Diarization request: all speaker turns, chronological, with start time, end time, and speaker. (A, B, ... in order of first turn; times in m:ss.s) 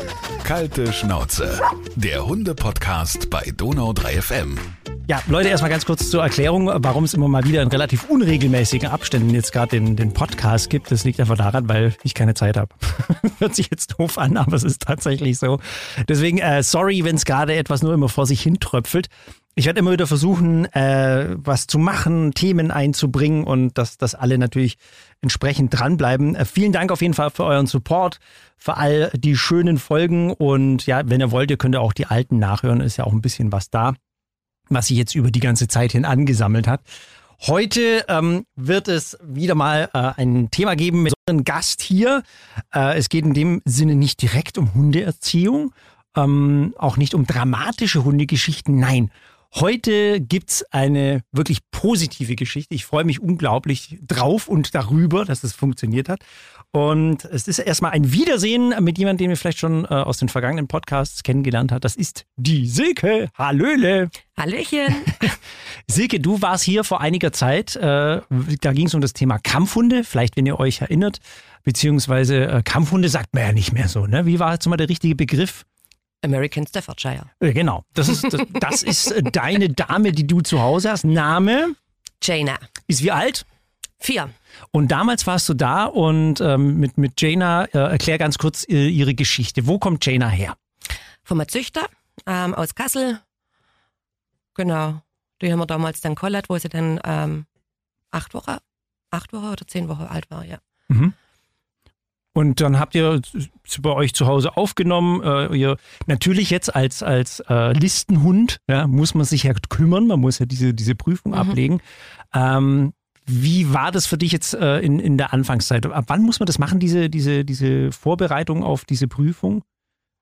0:00.4-0:04.7 A
0:05.1-0:34.0 B
0:34.7-0:36.8 B
0:37.4-0:56.2 B
0:56.7-1:04.1 B
1:04.4-1:05.4 C
1:05.9-1:15.6 B
1:16.2-1:17.3 C
1:17.4-1:21.8 B
1:22.2-1:22.6 C
1:22.9-1:23.5 B
1:24.0-1:24.3 C
1:24.7-1:30.6 B
1:31.2-1:33.2 C
1:34.6-1:37.5 C
1:38.1-1:40.6 C
1:40.9-1:41.1 B
1:42.4-1:51.8 B
1:52.3-1:59.6 B